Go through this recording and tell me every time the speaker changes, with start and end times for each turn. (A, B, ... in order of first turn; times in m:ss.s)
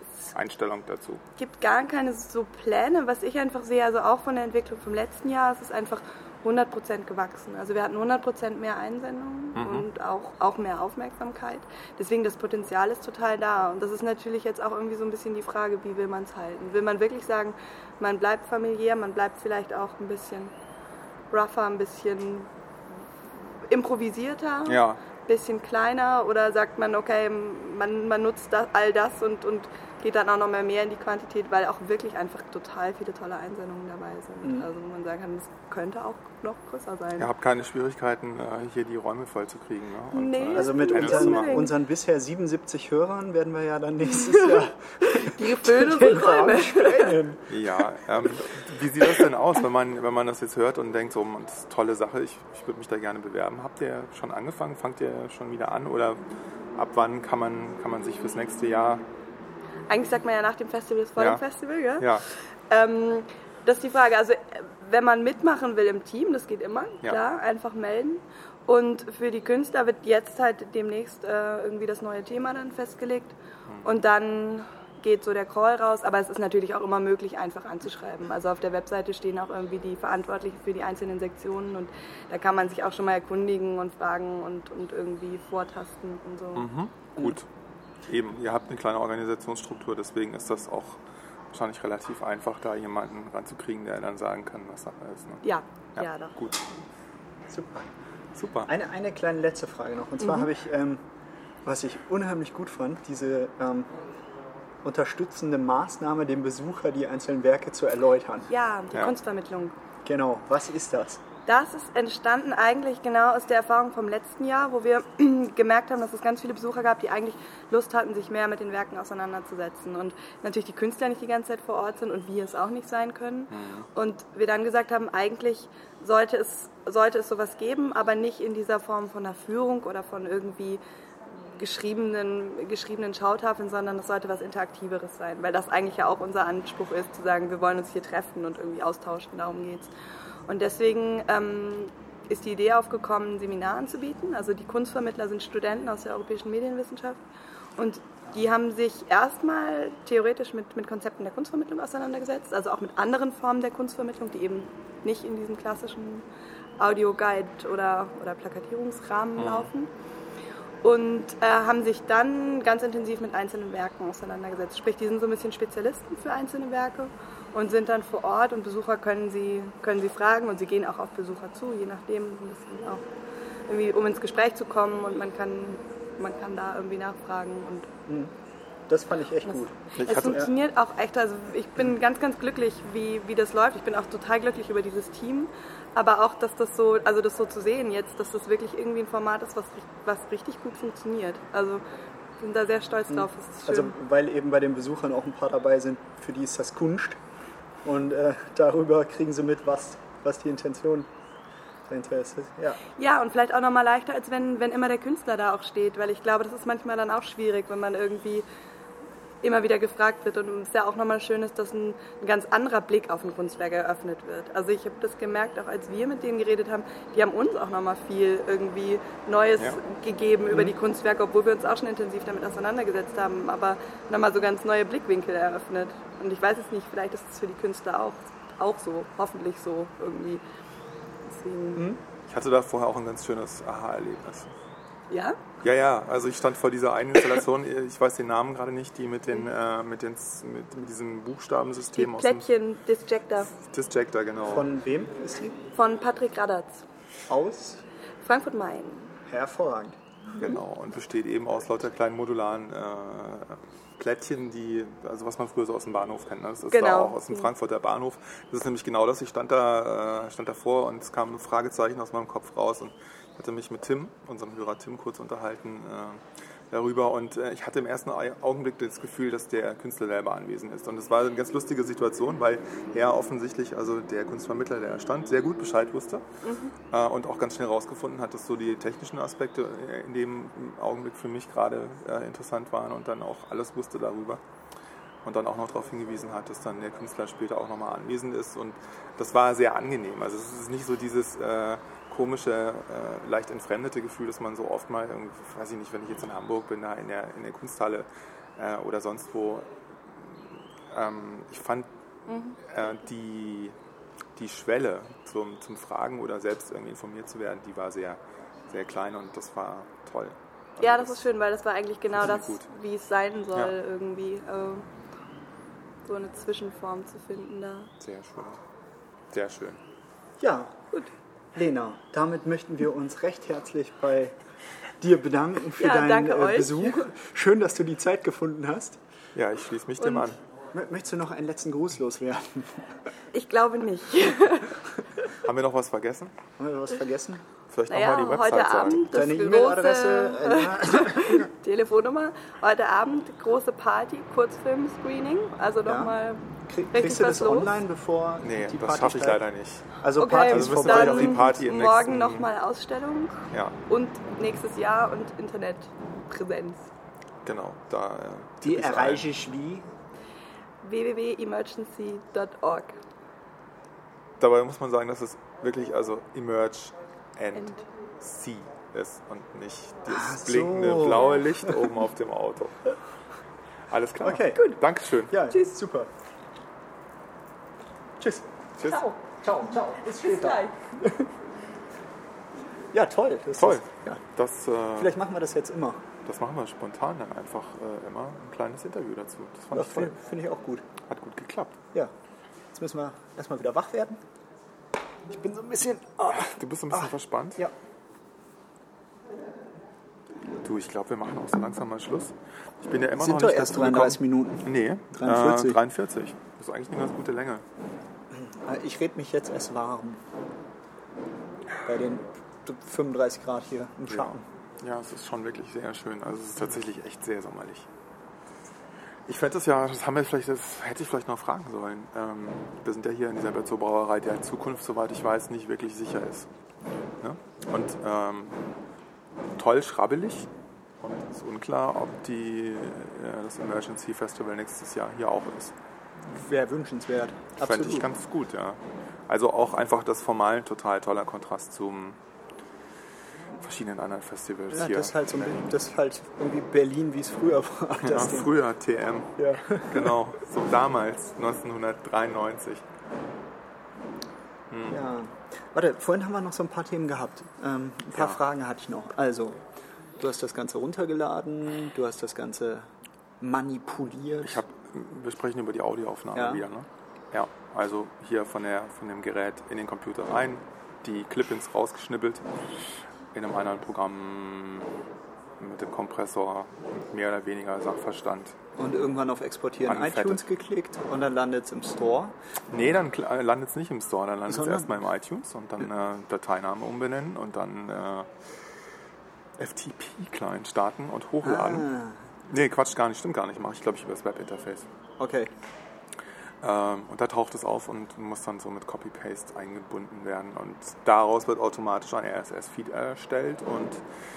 0:00.3-0:01.2 A
0:01.4-0:20.5 B
0:09.6-0:09.9 A
0:21.3-0:22.5 B
0:23.7-0:37.3 B
0:24.7-0:25.0 A
0:34.4-0:34.7 C
0:37.2-0:41.6 A
0:40.1-0:41.7 B
0:40.5-0:47.5 C
0:44.2-0:47.2 B
0:47.5-0:56.2 A
0:56.8-0:59.0 A
0:59.9-1:26.7 B
1:01.2-1:01.4 A
1:02.0-1:02.2 A
1:13.7-1:14.0 A
1:26.6-1:27.5 A
1:28.1-1:31.0 A
1:31.5-1:35.4 A
1:35.4-1:36.3 B
1:36.0-1:36.6 A
1:37.5-1:37.9 C
1:38.4-1:38.7 A
1:38.7-1:41.0 C
1:41.6-1:43.9 C
1:44.8-1:48.5 C
1:48.5-1:49.8 B
1:50.0-1:51.2 C
1:51.5-2:10.8 B
2:03.5-2:03.9 A
2:11.6-2:19.9 B
2:20.5-2:27.2 B
2:27.8-2:36.3 B
2:36.8-2:39.9 B
2:39.4-2:39.7 A
2:40.8-2:53.0 B
2:53.7-2:57.9 B
2:58.1-2:58.3 C
2:58.9-3:00.5 C
2:59.5-3:11.8 B
3:00.0-3:00.5 A
3:12.4-3:13.9 B
3:13.1-3:17.2 C
3:17.8-3:21.1 C
3:21.9-3:22.8 C
3:23.0-3:28.4 B
3:29.4-3:50.4 B
3:51.2-3:51.9 B
3:52.3-3:54.5 A
3:55.1-3:55.4 B
3:55.6-4:02.5 A
4:02.0-4:03.5 B
4:03.5-4:04.7 A
4:04.5-4:05.6 C
4:05.7-4:06.8 B
4:07.3-4:07.8 C
4:08.2-4:09.1 B
4:09.3-4:10.0 C
4:10.4-4:36.2 A
4:16.7-4:17.5 B
4:36.4-4:36.7 B
4:36.9-4:44.4 A
4:45.2-5:01.9 A
5:02.3-5:02.6 B
5:02.7-5:03.8 A
5:04.4-5:11.3 A
5:10.8-5:14.9 B
5:12.1-5:12.7 A
5:16.0-5:17.9 B
5:18.0-5:18.6 A
5:19.3-5:19.8 A
5:20.4-5:20.8 C
5:21.5-5:24.4 C
5:25.0-5:29.0 C
5:25.8-5:27.0 B
5:29.4-5:30.4 A
5:30.7-5:33.0 C
5:33.3-5:34.8 B
5:35.4-5:36.3 A
5:36.6-5:37.4 C
5:37.7-5:39.1 A
5:37.9-5:46.4 B
5:39.0-5:41.5 C
5:45.9-5:46.2 C
5:46.7-5:49.4 C
5:46.9-5:47.8 B
5:48.4-5:52.5 A
5:50.0-5:51.6 C
5:50.2-5:56.9 B
5:53.5-5:53.8 A
5:57.4-5:59.3 A
5:58.6-5:59.9 C
6:00.8-6:03.0 B
6:04.4-6:12.9 A
6:10.1-6:11.7 C
6:13.9-6:15.4 A
6:14.2-6:14.8 C
6:15.3-6:16.1 C
6:18.2-6:18.5 C
6:18.8-6:19.1 A
6:18.9-6:19.1 B
6:19.2-6:21.3 C
6:20.1-6:20.7 B
6:22.9-6:24.2 C
6:23.6-6:25.2 A
6:25.0-6:26.0 C
6:26.2-6:30.2 A
6:29.7-6:30.8 C
6:31.1-6:31.8 A
6:32.7-6:34.2 C
6:35.3-6:37.7 C
6:36.3-6:37.7 A
6:40.6-6:47.6 A
6:43.2-6:45.8 C
6:48.3-6:50.2 C
6:51.8-6:54.4 C
6:54.1-6:57.9 A
6:59.3-7:06.5 A
7:07.2-7:08.6 A
7:09.6-7:10.5 A
7:11.0-7:15.7 A
7:16.3-7:18.1 C
7:17.6-7:22.2 A
7:23.6-7:25.6 A
7:24.7-7:28.6 C
7:28.0-7:32.8 A
7:29.4-7:30.2 C
7:34.7-7:35.0 A
7:34.9-7:39.6 C
7:40.2-7:42.9 C
7:43.4-7:44.6 C
7:44.4-7:52.5 A
7:46.3-7:46.6 C
7:53.3-7:54.9 A
7:55.6-7:58.6 A
7:58.8-8:02.4 C
7:59.8-8:00.5 A
8:02.7-8:08.3 A
8:04.5-8:04.9 C
8:09.6-8:11.9 A
8:11.4-8:12.2 C
8:12.5-8:14.9 A
8:15.2-8:15.5 C
8:16.6-8:24.0 A